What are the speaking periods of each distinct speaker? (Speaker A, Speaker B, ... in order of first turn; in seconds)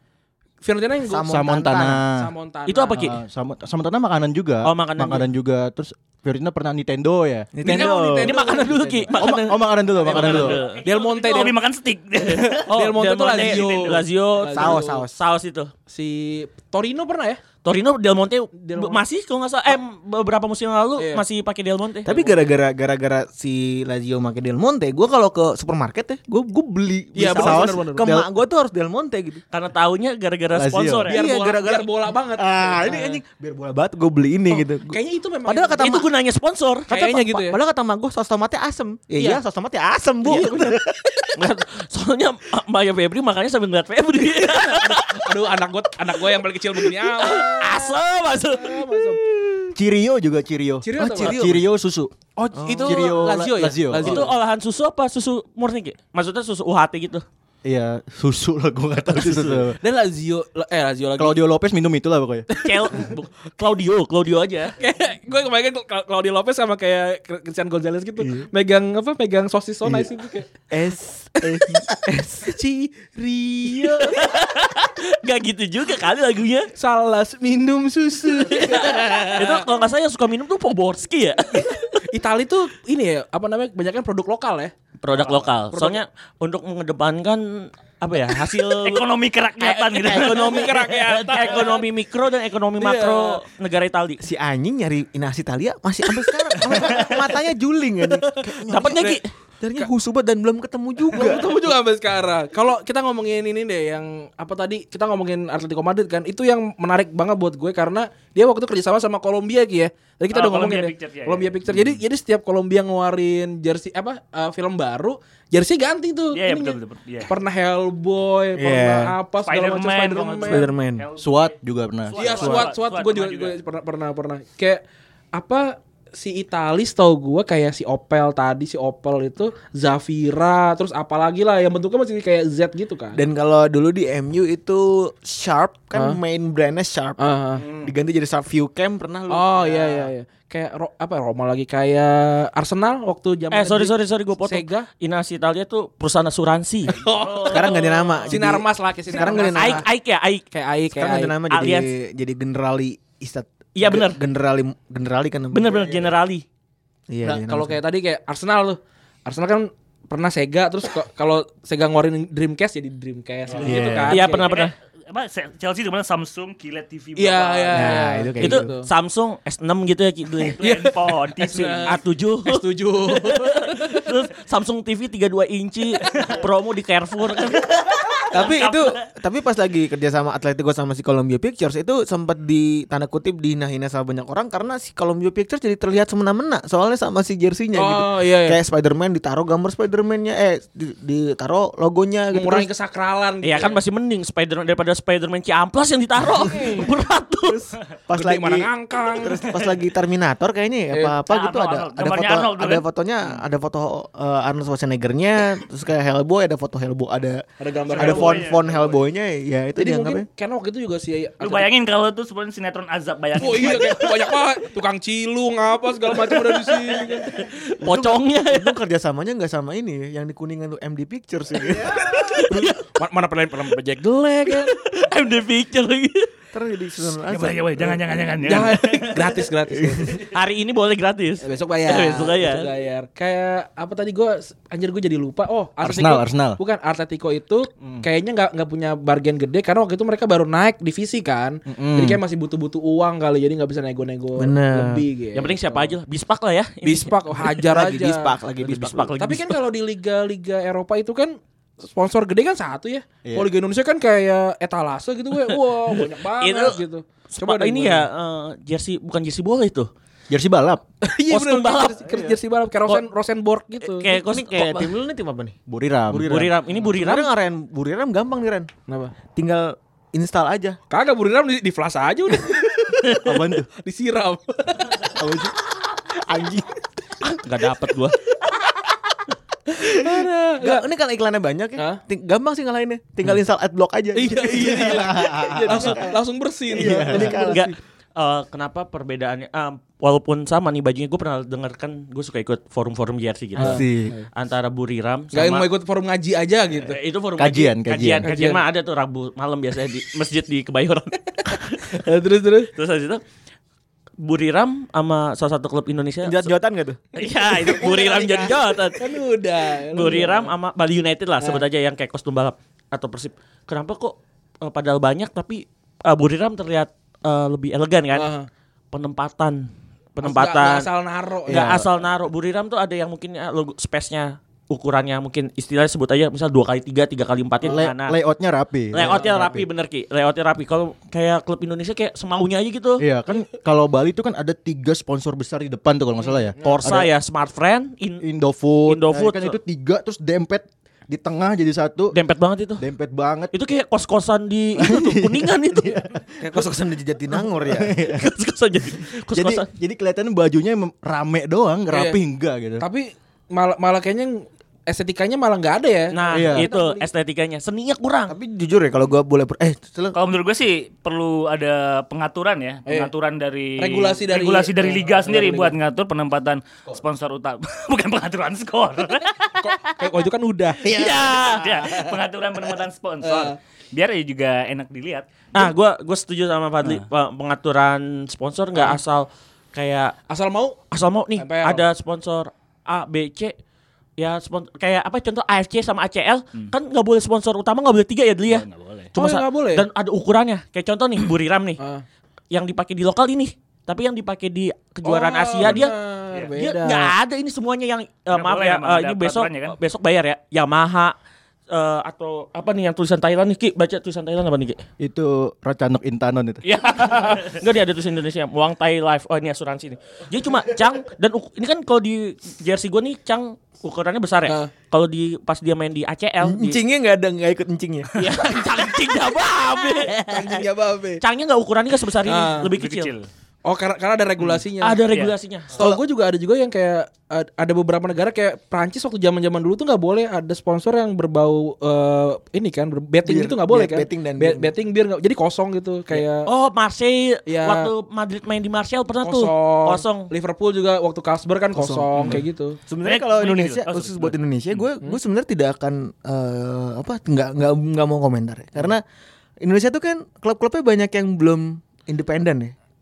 Speaker A: 0.6-1.2, 2.1-3.0, 7.6-8.8, 10.0-11.6, 12.7-15.0, 15.9-17.4, 18.6-19.0, 21.0-21.2, 27.1-28.2, 31.1-33.2, 34.5-36.0, 36.9-37.6, 39.2-39.4, 40.2-40.8, 44.4-49.2, 50.8-51.4, 52.4-54.4, 59.8-61.4, 64.8-70.5, 72.5-74.3, 76.8-79.7, 82.1-86.0, 89.6-91.8, 92.8-93.4, 101.1-120.7, 122.1-124.8, 125.3-133.2, 135.9-136.2, 137.2-137.9, 139.3-144.9, 146.9-149.9, 150.5-151.3, 157.2-164.5, 167.2-168.9, 170.6-174.0, 178.3-179.0, 187.7-188.6, 192.3-193.8, 196.4-196.9, 198.1-199.4, 207.6-208.6, 209.8-211.7, 213.3-217.5, 222.3-224.7, 228.4-230.2, 231.4-245.9, 246.8-248.3, 249.2-258.1, 261.0-264.1, 268.9-269.1, 270.9-273.2, 273.7-275.0, 279.8-280.8, 284.1-287.4, 293.6-294.3, 295.3-297.0, 298.2-298.6, 301.9-302.7, 307.5-310.5, 318.1-318.5, 320.2-321.7, 336.3-336.9, 351.9-352.2, 352.8-357.1, 362.9-363.1, 363.8-365.8, 369.6-371.1, 373.2-373.6, 380.3-380.8, 381.4-381.9, 389.1-389.9, 395.0-397.1, 414.5-414.7, 420.2-421.2, 422.2-422.7, 423.6-425.1, 425.8-436.5, 437.5-437.9, 439.2-442.8
Speaker B: 1.0-2.1, 7.5-8.3, 14.5-15.1, 22.1-29.4, 31.1-36.1, 36.9-41.0, 51.0-51.6, 52.6-53.2, 70.7-72.5, 94.2-101.7, 118.6-119.2, 120.4-121.1, 133.1-140.1, 147.4-149.8, 150.9-156.0, 157.1-157.8, 163.6-164.1, 167.7-168.7, 178.3-192.7, 197.5-210.3, 217.8-222.7, 226.5-228.3, 229.7-230.3, 244.4-245.0, 247.7-249.1, 264.1-265.6, 266.1-268.7, 269.3-270.8, 275.2-275.5, 276.2-277.4, 280.6-286.2, 286.7-287.7, 306.2-307.0, 346.4-347.9, 358.3-360.1, 416.4-418.1, 433.2-434.7, 441.8-449.0, 449.6-452.7
Speaker C: 1.2-2.2, 3.0-10.6, 27.4-28.3, 30.5-31.1, 49.8-52.2, 52.8-54.2, 57.6-59.8, 61.2-62.5, 121.2-122.6, 235.8-236.6, 241.7-242.2, 260.3-260.8, 265.7-266.5, 273.2-273.7, 284.9-285.9, 286.8-287.4, 293.6-294.1, 297.4-298.3, 321.5-321.8, 327.7-329.7, 333.0-337.1, 338.2-342.1, 342.8-343.5, 345.8-346.2, 347.7-348.2, 349.3-352.8, 356.3-356.7, 405.0-406.6
Speaker D: 2.7-3.2, 4.6-5.3, 8.2-10.8, 12.6-15.7, 17.6-22.2, 29.5-31.2, 35.8-36.9, 41.4-45.3, 46.7-49.0, 54.0-57.2, 59.0-59.6, 62.6-64.8, 73.7-76.7, 78.6-82.0, 85.0-89.1, 89.6-94.2, 98.7-99.2, 143.5-147.5, 149.5-150.5, 151.5-151.9, 153.8-154.2, 155.5-156.4, 164.1-164.7, 168.4-170.6, 171.4-177.7, 193.4-197.7, 217.5-218.8, 221.9-222.8, 224.5-226.3, 230.3-232.7, 245.3-247.6, 248.6-249.6, 255.5-256.8, 257.4-259.9, 261.3-262.0, 263.8-264.9, 266.3-267.3, 277.4-278.2, 287.1-295.7, 296.8-301.9, 302.7-303.2, 304.2-306.5, 307.1-309.1, 309.9-318.3, 318.9-320.9, 321.5-328.1, 328.9-333.0, 336.6-338.2, 338.9-339.6, 342.1-342.8, 343.5-346.0, 348.1-349.7, 356.1-358.4, 370.9-371.7, 375.5-380.1, 380.9-383.6, 384.2-391.8, 392.5-395.9, 396.6-401.1, 401.7-404.8, 406.7-416.8, 418.2-420.6, 421.2-423.1, 424.8-425.8, 436.1-440.3
Speaker E: 10.2-12.7, 13.3-14.0, 88.8-91.3, 110.3-111.6, 116.3-117.3, 119.4-121.6, 122.1-123.6, 164.4-168.0, 170.5-171.9, 178.2-178.9, 201.3-202.8, 207.9-209.0, 211.4-214.3, 216.4-217.2, 227.3-229.3, 360.1-369.6, 371.2-375.7, 388.5-389.1, 398.3-399.8, 422.8-423.3, 443.0-444.8